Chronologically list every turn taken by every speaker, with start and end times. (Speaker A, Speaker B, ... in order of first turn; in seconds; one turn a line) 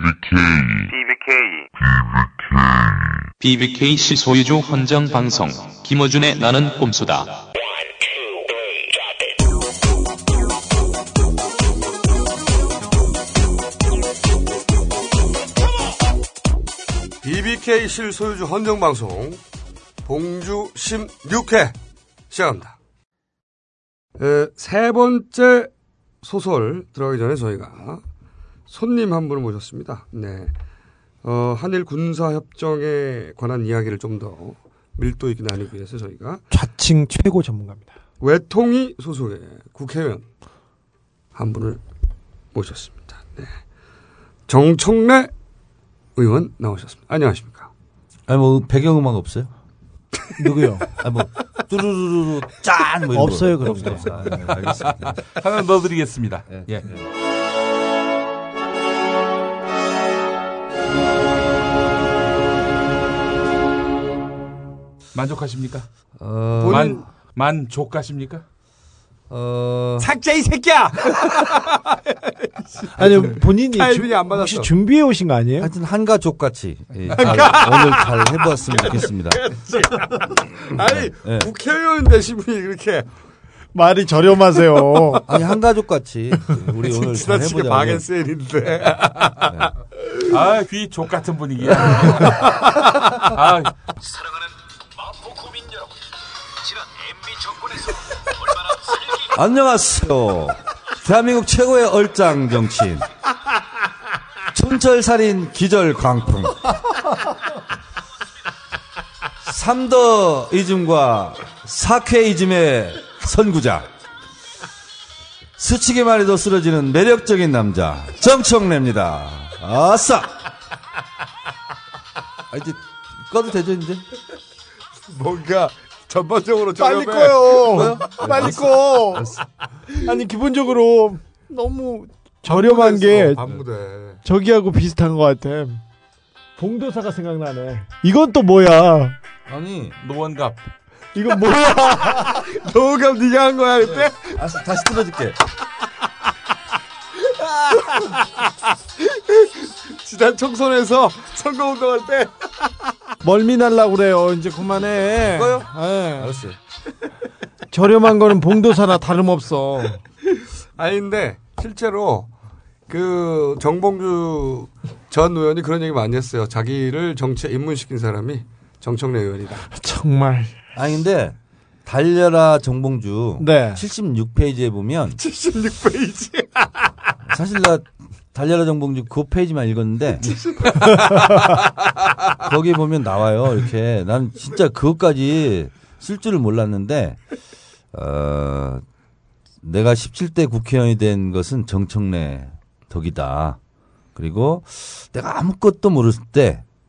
Speaker A: 0.7-2.6
Speaker B: 3.4-7.4
Speaker C: 17.2-19.4
Speaker C: 20.0-21.7
Speaker C: 22.3-22.8
Speaker C: 24.2-25.7
Speaker C: 26.2-28.0
Speaker C: 28.7-30.5
Speaker C: 31.2-36.4
Speaker D: 36.5-37.9
Speaker C: 38.2-40.2
Speaker C: 41.3-41.8
Speaker C: 42.5-43.5
Speaker C: 44.5-45.3
Speaker C: 46.1-47.7
Speaker E: 48.3-49.5
Speaker D: 50.4-50.9
Speaker E: 51.0-55.2
Speaker D: 53.1-54.1
Speaker F: 53.7-54.0
Speaker F: 55.1-57.0
Speaker F: 65.1-65.9
Speaker E: 66.2-67.0
Speaker C: 66.6-67.0
Speaker F: 66.6-68.4
Speaker E: 69.3-70.1
Speaker C: 70.0-74.7
Speaker D: 72.9-75.7
Speaker E: 75.6-79.4
Speaker C: 77.1-83.1
Speaker E: 80.8-81.5
Speaker D: 83.7-85.2
Speaker E: 85.2-88.0
Speaker C: 86.8-89.6
Speaker F: 90.3-93.7
Speaker C: 92.1-92.5
Speaker E: 99.2-103.0
Speaker E: 104.5-106.7
Speaker E: 109.4-113.9
Speaker E: 115.6-120.4
Speaker E: 122.5-124.0
Speaker C: 125.1-127.9
Speaker D: 126.8-129.3
Speaker E: 127.6-129.3
Speaker D: 130.0-133.4
Speaker C: 132.5-134.2
Speaker D: 134.2-135.8
Speaker D: 136.6-139.2
Speaker E: 139.5-139.9
Speaker F: 140.0-140.6
Speaker D: 141.1-142.4
Speaker C: 142.1-144.4
Speaker E: 144.3-145.4
Speaker C: 147.3-148.3
Speaker C: 149.0-152.7
Speaker D: 153.2-156.4
Speaker E: 155.3-156.6
Speaker D: 157.7-160.0
Speaker C: 160.4-162.3
Speaker C: 162.9-169.6
Speaker D: 169.7-170.5
Speaker E: 170.7-175.2
Speaker D: 173.4-173.8
Speaker C: 175.2-176.7
Speaker E: 177.3-180.3
Speaker C: 180.3-181.3
Speaker D: 180.8-181.3
Speaker E: 182.4-187.2
Speaker E: 187.9-188.8
Speaker E: 189.6-193.6
Speaker E: 194.2-196.6